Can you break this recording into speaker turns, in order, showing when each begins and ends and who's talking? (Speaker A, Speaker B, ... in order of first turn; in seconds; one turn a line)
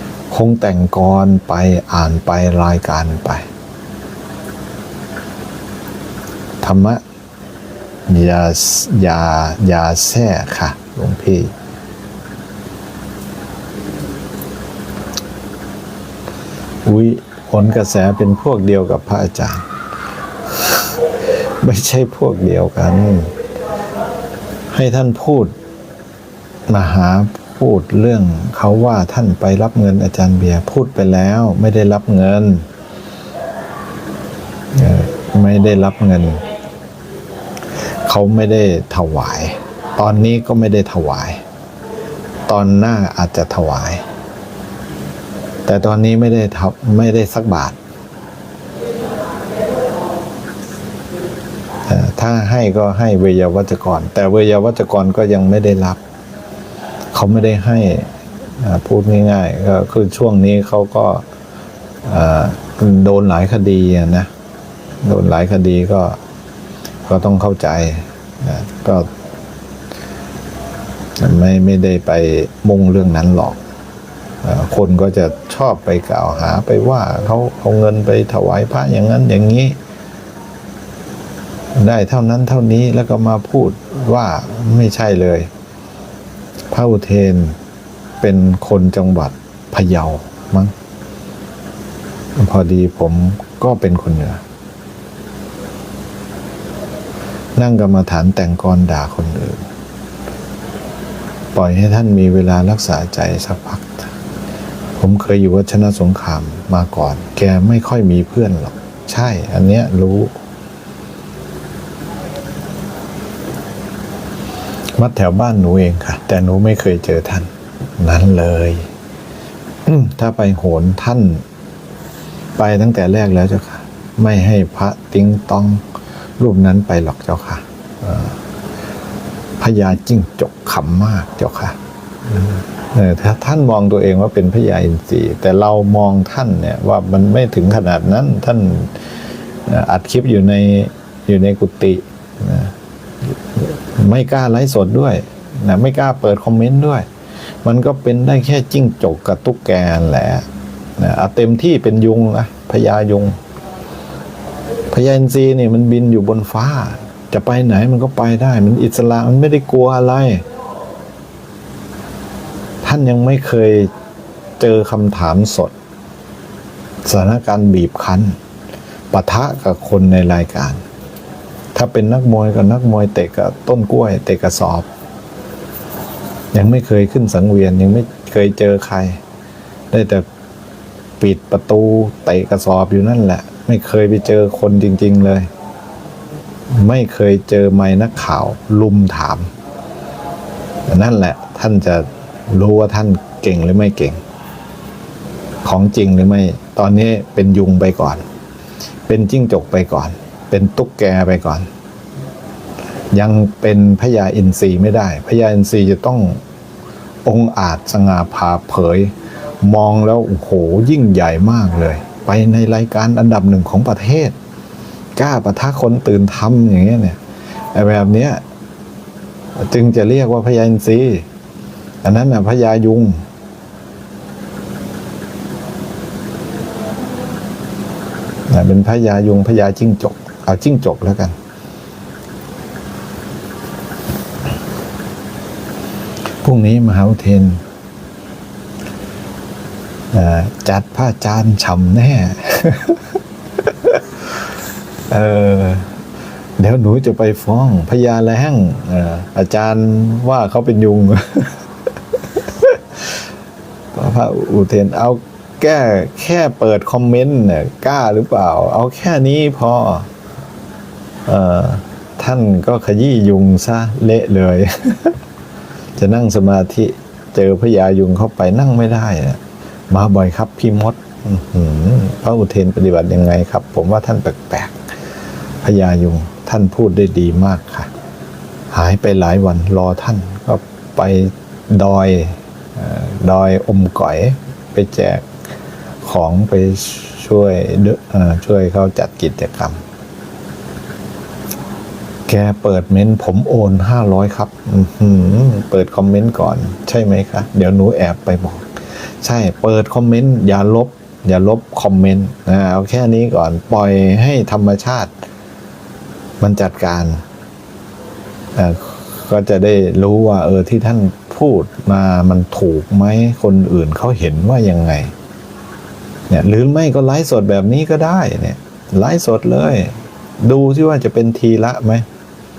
Speaker A: 0.3-3.5
Speaker A: 6.6-7.0
Speaker A: 8.1-11.5
Speaker A: 16.8-19.7
Speaker A: 20.5-23.3
Speaker A: 24.7-25.5
Speaker A: 26.7-32.6
Speaker A: 34.7-36.4
Speaker A: 38.0-41.4
Speaker A: 42.5-44.0
Speaker A: 45.6-47.8
Speaker A: 51.9-56.0
Speaker A: 57.1-61.2
Speaker A: 62.0-64.3
Speaker A: 65.0-66.2
Speaker A: 67.1-69.1
Speaker A: 71.2-73.6
Speaker A: 74.4-79.8
Speaker A: 81.7-85.5
Speaker A: 86.7-87.6
Speaker A: 88.2-90.7
Speaker A: 92.3-94.4
Speaker A: 97.5-99.7
Speaker A: 101.5-104.1
Speaker A: 105.0-110.3
Speaker A: 115.0-118.9
Speaker A: 119.8-121.4
Speaker A: 122.6-125.8
Speaker A: 126.4-128.4
Speaker A: 129.6-131.8
Speaker A: 132.3-139.1
Speaker A: 139.7-147.1
Speaker A: 147.6-150.4
Speaker A: 151.0-153.4
Speaker A: 154.9-160.4
Speaker A: 162.8-163.9
Speaker A: 164.6-165.7
Speaker A: 167.0-168.4
Speaker A: 169.1-170.8
Speaker A: 171.7-174.9
Speaker A: 176.5-179.2
Speaker A: 179.9-180.2
Speaker A: 181.2-185.5
Speaker A: 186.7-189.5
Speaker A: 190.9-194.2
Speaker A: 195.6-198.2
Speaker A: 199.1-201.7
Speaker A: 203.1-206.4
Speaker A: 207.2-214.3
Speaker A: 215.2-217.2
Speaker A: 217.7-218.4
Speaker A: 219.6-221.2
Speaker A: 222.0-223.2
Speaker A: 228.5-231.3
Speaker A: 236.4-237.6
Speaker A: 240.1-243.0
Speaker A: 243.6-244.0
Speaker A: 245.1-245.9
Speaker A: 246.6-251.6
Speaker A: 252.3-253.0
Speaker A: 253.9-260.1
Speaker A: 261.2-265.2
Speaker A: 266.0-274.8
Speaker A: 275.6-277.9
Speaker A: 278.7-285.3
Speaker A: 286.0-289.8
Speaker A: 292.3-305.2
Speaker A: 306.4-307.2
Speaker A: 308.5-315.1
Speaker A: 316.3-322.1